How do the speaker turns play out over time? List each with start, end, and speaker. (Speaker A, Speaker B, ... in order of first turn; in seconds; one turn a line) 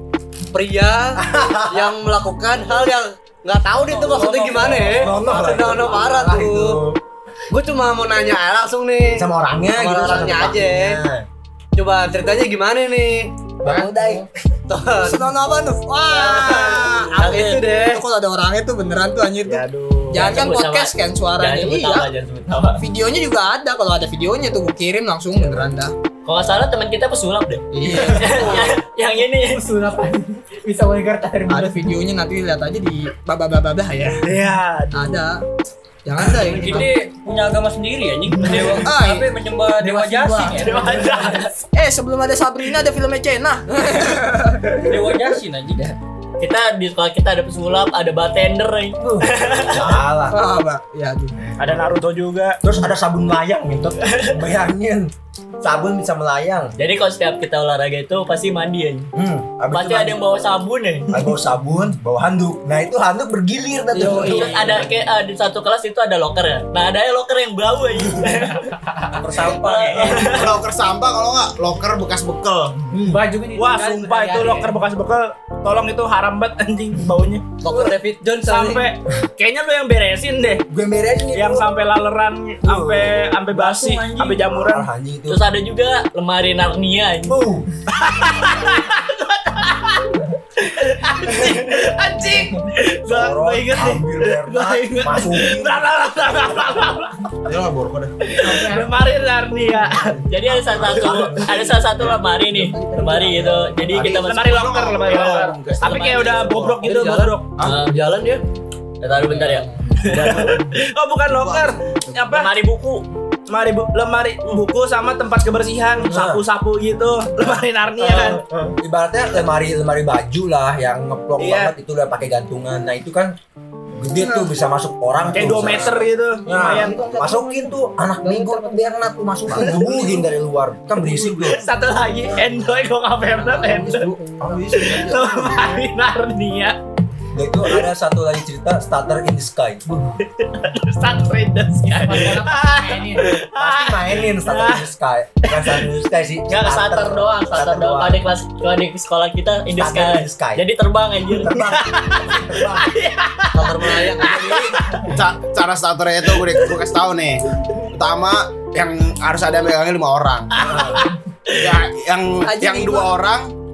Speaker A: 0.5-6.8
Speaker B: 1.1-2.0
Speaker C: 3.8-5.1
Speaker B: 4.7-7.0
Speaker A: 7.5-11.0
Speaker B: 9.2-11.2
Speaker A: 11.7-13.3
Speaker B: 13.6-14.3
Speaker D: 13.7-14.2
Speaker A: 14.7-15.2
Speaker E: 15.0-22.1
Speaker A: 16.3-18.0
Speaker F: 17.2-17.6
Speaker G: 19.4-20.2
Speaker F: 20.1-22.8
Speaker E: 22.8-25.9
Speaker F: 26.2-29.7
Speaker E: 27.7-28.8
Speaker D: 28.1-28.6
Speaker D: 29.2-31.8
Speaker E: 31.5-34.3
Speaker G: 34.2-35.1
Speaker E: 34.9-35.4
Speaker E: 36.0-36.9
Speaker C: 36.4-41.0
Speaker E: 38.5-44.9
Speaker G: 40.5-41.5
Speaker C: 44.8-45.9
Speaker F: 46.4-49.9
Speaker B: 49.0-50.4
Speaker E: 50.3-51.4
Speaker G: 51.6-52.6
Speaker B: 52.6-56.7
Speaker F: 56.8-59.1
Speaker B: 59.1-60.3
Speaker F: 59.7-61.3
Speaker B: 61.1-64.8
Speaker E: 63.9-64.7
Speaker F: 64.0-68.7
Speaker D: 64.3-64.7
Speaker C: 69.2-70.4
Speaker F: 69.5-70.5
Speaker H: 70.1-72.9
Speaker B: 72.9-73.2
Speaker D: 73.0-74.8
Speaker G: 73.5-77.5
Speaker A: 77.6-78.8
Speaker G: 78.4-80.6
Speaker B: 80.7-81.7
Speaker G: 81.3-84.9
Speaker B: 82.6-83.2
Speaker C: 83.5-84.4
Speaker B: 84.5-85.4
Speaker F: 85.3-87.4
Speaker B: 87.2-87.7
Speaker G: 87.9-97.3
Speaker B: 93.0-95.9
Speaker H: 97.4-98.4
Speaker G: 98.3-100.3
Speaker D: 98.4-99.1
Speaker F: 100.3-104.7
Speaker B: 100.4-104.0
Speaker H: 103.8-106.8
Speaker G: 104.1-107.6
Speaker F: 105.8-106.4
Speaker A: 106.8-108.4
Speaker F: 107.6-108.0
Speaker F: 109.0-110.6
Speaker G: 110.0-112.5
Speaker H: 111.4-112.1
Speaker F: 112.3-113.0
Speaker G: 113.5-118.4
Speaker B: 116.0-116.4
Speaker B: 118.0-123.3
Speaker G: 121.4-121.7
Speaker B: 124.0-131.7
Speaker G: 125.3-127.0
Speaker D: 126.5-127.6
Speaker E: 128.2-128.6
Speaker G: 131.0-134.1
Speaker B: 133.4-135.8
Speaker G: 134.7-136.8
Speaker B: 137.3-140.2
Speaker G: 140.6-144.9
Speaker D: 141.8-143.4
Speaker B: 143.5-148.3
Speaker G: 145.5-145.8
Speaker F: 146.5-151.8
Speaker B: 149.8-150.7
Speaker B: 151.3-152.9
Speaker G: 153.1-154.2
Speaker A: 153.5-154.6
Speaker H: 154.2-163.5
Speaker B: 160.6-161.0
Speaker E: 162.4-163.1